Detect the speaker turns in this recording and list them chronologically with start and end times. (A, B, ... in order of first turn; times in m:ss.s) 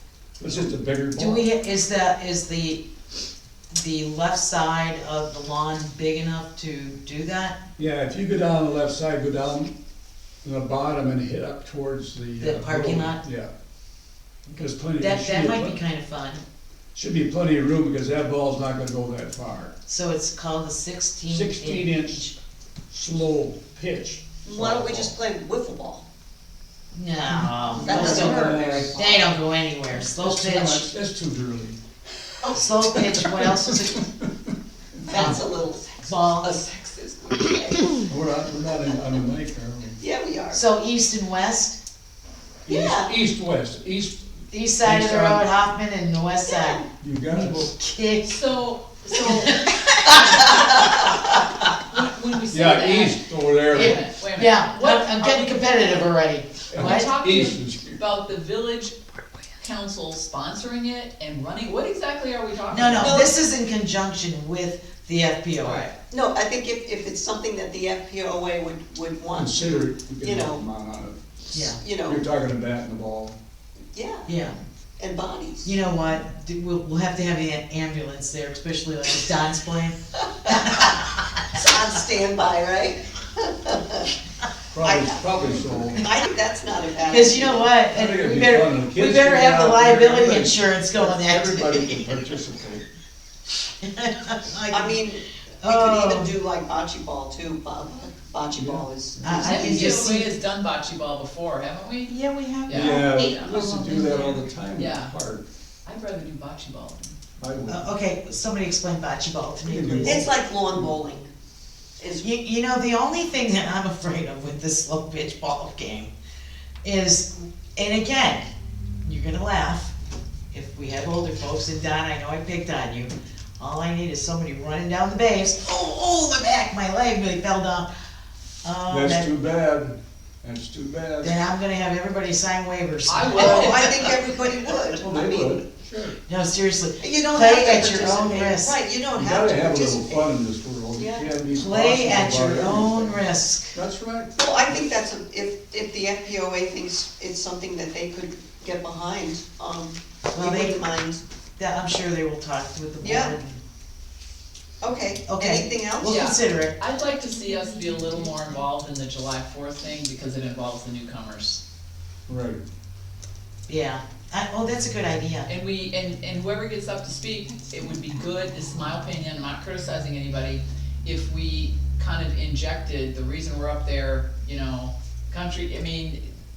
0:00.4-0:01.5 A
0:01.2-0:02.8 B
0:03.7-0:07.6 B
0:07.8-0:09.7 A
0:10.4-0:13.5 A
0:12.4-0:13.2 B
0:14.5-0:15.8 A
0:15.0-0:16.4 B
0:17.0-0:19.7 A
0:19.9-0:22.3 B
0:21.3-0:22.2 A
0:22.9-0:25.1 A
0:24.4-0:26.0 C
0:26.9-0:30.9 B
0:27.3-0:29.0 A
0:27.8-0:29.4 C
0:30.2-0:31.8 A
0:32.4-0:34.0 B
0:32.5-0:34.5 A
0:35.0-0:37.8 C
0:35.1-0:35.4 B
0:36.0-0:36.6 B
0:38.1-0:40.0 A
0:40.0-0:40.6 C
0:40.5-0:41.8 B
0:42.6-0:44.2 A
0:42.7-0:43.1 C
0:44.5-0:48.4 B
0:44.8-0:45.5 A
0:46.5-0:46.8 C
0:47.0-0:47.7 A
0:48.2-0:56.1 D
0:49.1-0:50.6 B
0:50.6-0:51.2 C
0:52.5-0:54.0 A
0:53.7-0:57.1 B
0:56.7-0:58.0 A
0:56.7-0:59.0 D
0:59.6-1:03.3 D
1:02.7-1:05.9 B
1:03.0-1:03.3 C
1:05.6-1:05.9 D
1:06.1-1:10.6 C
1:09.3-1:11.2 A
1:11.5-1:11.8 B
1:11.6-1:12.2 C
1:12.0-1:13.4 A
1:13.9-1:14.3 C
1:14.3-1:14.6 B
1:15.0-1:15.7 C
1:15.6-1:20.0 B
1:20.4-1:20.9 C
1:20.4-1:21.4 B
1:21.5-1:24.1 C
1:24.7-1:26.0 A
1:24.8-1:27.7 C
1:27.1-1:32.2 B
1:27.9-1:32.8 A
1:33.8-1:35.0 B
1:34.7-1:39.8 C
1:35.6-1:36.3 B
1:38.4-1:39.5 A
1:39.2-1:40.3 B
1:39.3-1:42.1 D
1:42.1-1:44.4 B
1:42.6-1:43.6 D
1:42.7-1:45.5 A
1:44.8-1:45.1 D
1:45.9-1:47.2 D
1:47.4-1:47.9 A
1:47.7-1:50.3 B
1:49.6-1:50.9 A
1:50.0-1:51.3 C
1:52.0-1:52.3 C
1:52.2-1:56.1 B
1:56.8-1:58.4 B
1:59.0-1:59.9 B
2:00.5-2:07.9 B
2:08.6-2:09.3 B
2:08.9-2:11.4 A
2:11.2-2:13.8 B
2:13.1-2:14.2 D
2:13.3-2:15.6 C
2:15.0-2:16.2 A
2:16.2-2:18.8 B
2:17.0-2:20.3 C
2:19.2-2:23.2 A
2:20.9-2:21.3 C
2:21.5-2:23.8 B
2:23.7-2:24.8 A
2:24.4-2:31.2 C
2:30.3-2:30.8 B
2:31.6-2:33.6 B
2:33.0-2:33.4 C
2:34.8-2:36.3 C
2:35.3-2:36.8 B
2:36.1-2:41.6 D
2:42.3-2:42.6 A
2:43.7-2:45.5 B
2:45.5-2:56.2 D